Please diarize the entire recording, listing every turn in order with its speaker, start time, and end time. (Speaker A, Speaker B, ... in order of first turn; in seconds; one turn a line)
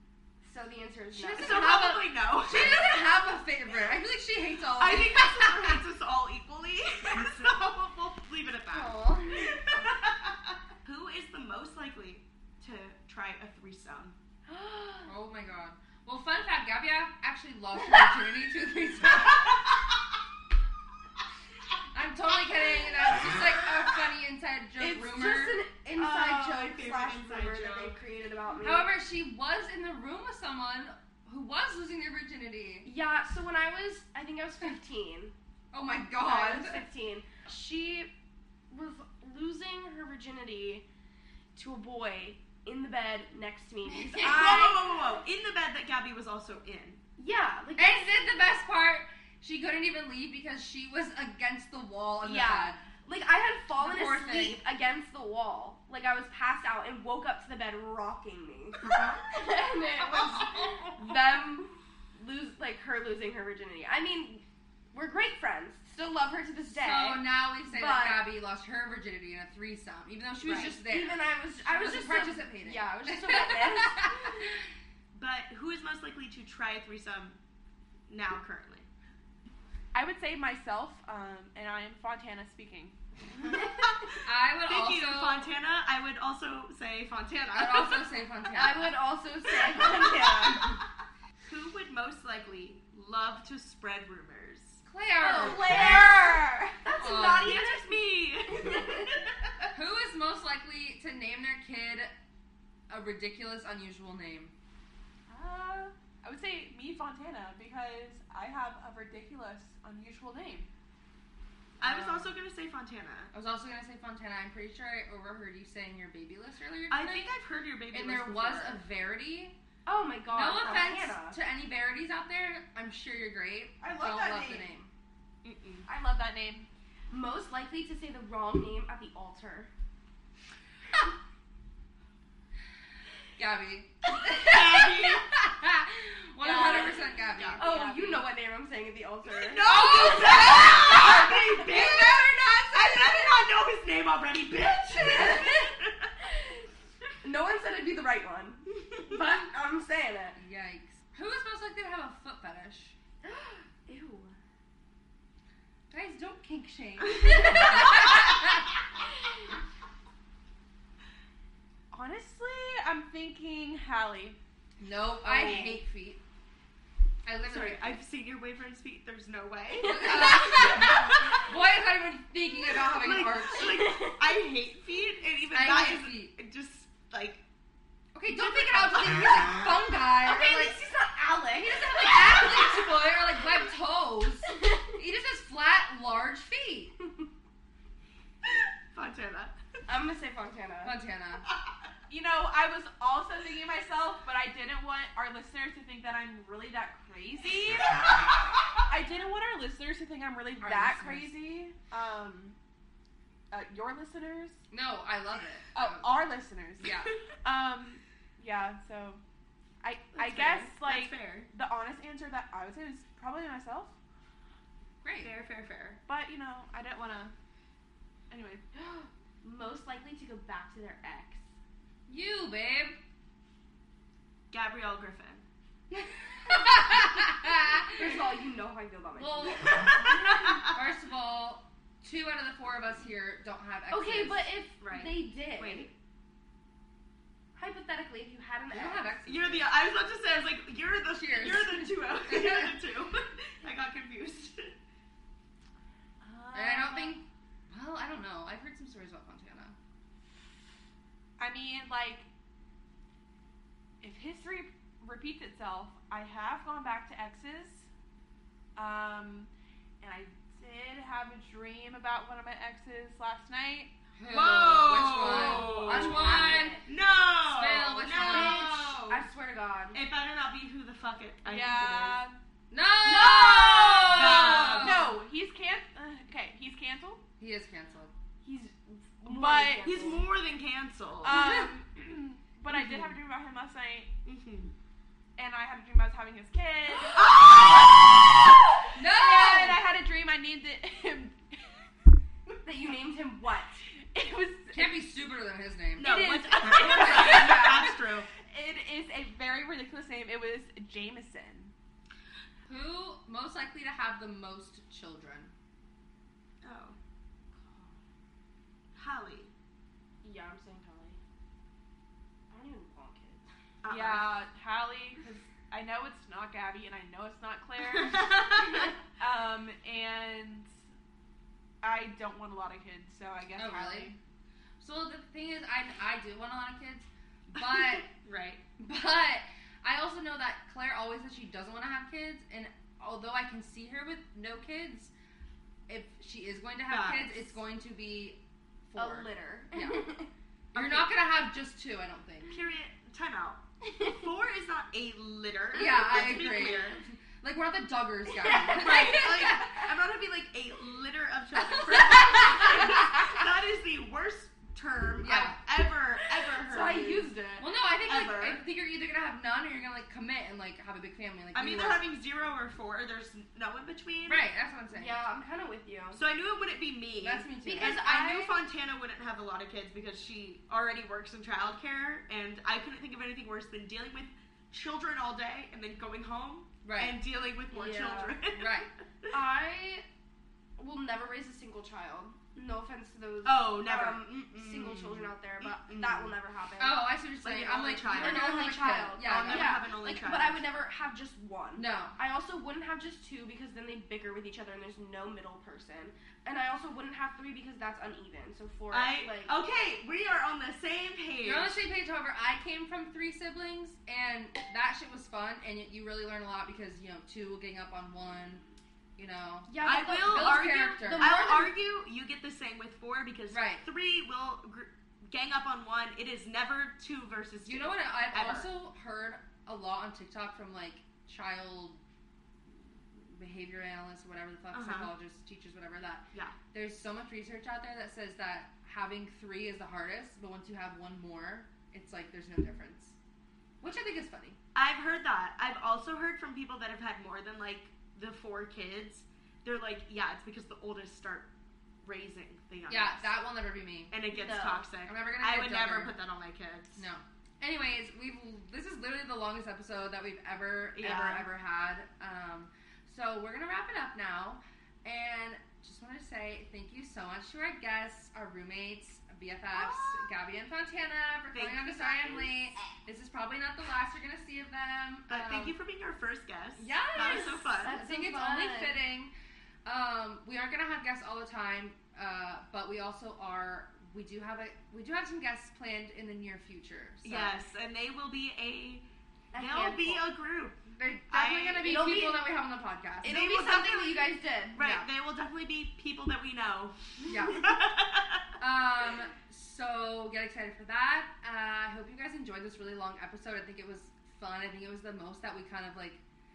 Speaker A: 0.4-1.8
Speaker B: 1.1-5.7
Speaker C: 1.4-3.0
Speaker C: 4.7-14.2
Speaker A: 8.7-9.6
Speaker A: 14.5-15.1
Speaker B: 15.1-19.7
Speaker B: 21.9-25.7
Speaker A: 24.8-28.9
Speaker C: 25.9-28.0
Speaker B: 28.6-32.9
Speaker A: 32.8-35.3
Speaker B: 35.7-36.9
Speaker A: 36.2-38.1
Speaker A: 38.7-40.9
Speaker A: 41.5-44.9
Speaker B: 44.0-44.5
Speaker C: 44.2-47.0
Speaker A: 47.2-48.1
Speaker B: 47.8-52.8
Speaker A: 52.2-68.2
Speaker B: 53.8-54.6
Speaker B: 58.8-59.2
Speaker B: 60.0-61.0
Speaker B: 66.7-74.3
Speaker C: 70.4-70.7
Speaker A: 70.5-74.2
Speaker C: 75.1-77.4
Speaker C: 78.1-78.9
Speaker D: 79.9-83.0
Speaker B: 84.2-85.5
Speaker C: 84.6-88.0
Speaker B: 87.5-89.0
Speaker A: 88.5-90.8
Speaker C: 91.5-94.8
Speaker B: 94.9-96.0
Speaker A: 95.2-97.7
Speaker C: 95.6-99.7
Speaker B: 97.0-97.6
Speaker B: 99.7-102.1
Speaker B: 102.9-104.5
Speaker D: 105.3-110.7
Speaker B: 111.8-112.3
Speaker C: 111.8-113.3
Speaker B: 113.3-117.3
Speaker C: 116.9-118.8
Speaker B: 117.9-119.5
Speaker A: 119.9-121.4
Speaker B: 120.3-124.9
Speaker D: 123.8-124.7
Speaker C: 125.4-125.9
Speaker D: 125.9-126.7
Speaker A: 127.1-129.7
Speaker B: 133.4-137.6
Speaker C: 134.4-135.3
Speaker D: 136.4-138.3
Speaker C: 136.6-137.6
Speaker A: 137.6-141.5
Speaker C: 139.4-146.1
Speaker B: 139.6-143.4
Speaker A: 147.2-150.4
Speaker B: 150.3-152.9
Speaker A: 153.2-154.4
Speaker B: 155.9-158.7
Speaker C: 157.4-157.7
Speaker D: 161.9-164.4
Speaker B: 164.8-166.2
Speaker D: 165.3-165.7
Speaker B: 167.2-168.0
Speaker C: 167.5-171.2
Speaker B: 169.8-173.8
Speaker C: 172.9-177.4
Speaker A: 173.6-174.2
Speaker B: 175.5-176.3
Speaker B: 178.2-180.8
Speaker C: 178.3-179.5
Speaker A: 180.2-182.9
Speaker B: 181.6-186.9
Speaker C: 188.9-189.6
Speaker A: 189.9-191.0
Speaker B: 190.8-191.4
Speaker D: 192.1-202.6
Speaker B: 200.6-201.3
Speaker D: 203.5-204.6
Speaker B: 204.7-206.1
Speaker D: 205.7-209.2
Speaker B: 206.8-207.1
Speaker D: 209.8-213.9
Speaker C: 210.2-211.5
Speaker B: 215.0-215.3
Speaker C: 215.2-216.0
Speaker D: 216.1-217.3
Speaker D: 218.3-218.7
Speaker A: 218.8-221.5
Speaker B: 222.1-223.0
Speaker C: 224.5-225.4
Speaker B: 225.9-228.1
Speaker A: 227.9-229.9
Speaker B: 229.2-234.5
Speaker C: 229.7-230.7
Speaker A: 233.9-235.9
Speaker C: 234.8-235.9
Speaker A: 237.6-239.2
Speaker B: 238.7-239.7
Speaker C: 239.3-244.8
Speaker B: 241.1-242.8
Speaker D: 246.2-247.2
Speaker B: 246.5-249.8
Speaker D: 251.4-252.3
Speaker D: 254.0-257.9
Speaker D: 258.8-259.5
Speaker D: 260.0-263.9
Speaker B: 264.2-266.8
Speaker C: 264.3-269.3
Speaker A: 265.2-266.9
Speaker B: 267.4-268.7
Speaker A: 268.1-270.0
Speaker C: 269.9-272.2
Speaker D: 271.4-272.4
Speaker B: 272.7-275.1
Speaker A: 273.1-274.2
Speaker C: 274.1-275.1
Speaker D: 274.3-277.2
Speaker B: 277.4-278.1
Speaker A: 278.4-280.3
Speaker D: 279.2-280.0
Speaker C: 279.8-281.4
Speaker D: 281.2-284.1
Speaker B: 281.3-281.7
Speaker C: 284.2-284.7
Speaker D: 285.4-287.3
Speaker C: 287.1-288.1
Speaker B: 288.9-289.8
Speaker D: 289.0-291.9
Speaker A: 292.6-293.8
Speaker D: 294.1-295.0
Speaker B: 294.7-296.1
Speaker C: 296.0-298.3
Speaker D: 296.0-301.7
Speaker B: 302.6-305.5
Speaker C: 306.6-307.0
Speaker A: 307.5-308.0
Speaker C: 308.9-309.5
Speaker A: 310.2-311.2
Speaker A: 312.5-313.4
Speaker C: 313.8-314.4
Speaker D: 313.9-320.7
Speaker C: 317.9-318.8
Speaker D: 321.8-324.2
Speaker B: 323.6-324.1
Speaker B: 324.8-328.1
Speaker C: 327.7-328.6
Speaker B: 328.8-335.1
Speaker B: 335.9-340.1
Speaker C: 336.9-337.6
Speaker A: 338.9-340.3
Speaker C: 340.7-341.2
Speaker B: 340.7-342.6
Speaker C: 342.5-347.0
Speaker B: 345.7-349.7
Speaker C: 348.4-357.3
Speaker B: 351.7-353.1
Speaker B: 355.2-355.6
Speaker A: 356.7-357.7
Speaker B: 357.6-362.0
Speaker C: 358.0-358.6
Speaker C: 361.5-364.5
Speaker B: 364.3-365.2
Speaker A: 364.9-366.2
Speaker C: 366.1-379.3
Speaker B: 367.2-368.0
Speaker A: 367.6-368.6
Speaker B: 376.8-377.2
Speaker A: 377.7-378.4
Speaker B: 378.5-378.9
Speaker A: 379.3-380.1
Speaker A: 380.8-387.1
Speaker C: 383.4-386.4
Speaker B: 386.8-389.8
Speaker C: 387.4-390.6
Speaker A: 388.1-399.5
Speaker B: 391.8-392.1
Speaker C: 398.9-401.8
Speaker B: 401.4-408.6
Speaker B: 409.2-411.4
Speaker A: 409.7-411.7
Speaker C: 409.8-418.7
Speaker B: 413.5-413.8
Speaker B: 417.6-422.0
Speaker B: 422.7-433.1
Speaker C: 424.7-425.1
Speaker B: 433.8-434.6
Speaker C: 434.7-441.5
Speaker C: 442.0-443.3
Speaker B: 442.9-444.2
Speaker C: 444.1-447.0
Speaker A: 444.3-444.9
Speaker B: 445.0-446.1
Speaker B: 446.9-465.7
Speaker C: 450.9-451.5
Speaker C: 459.7-460.3
Speaker C: 461.5-462.7
Speaker C: 465.3-468.0
Speaker B: 466.8-469.3
Speaker A: 467.1-469.0
Speaker B: 469.9-477.6
Speaker C: 477.2-480.8
Speaker A: 479.5-480.3
Speaker B: 480.9-483.4
Speaker C: 481.3-482.1
Speaker A: 481.8-482.5
Speaker A: 483.2-485.1
Speaker C: 483.2-488.4
Speaker B: 487.2-487.7
Speaker B: 488.6-496.2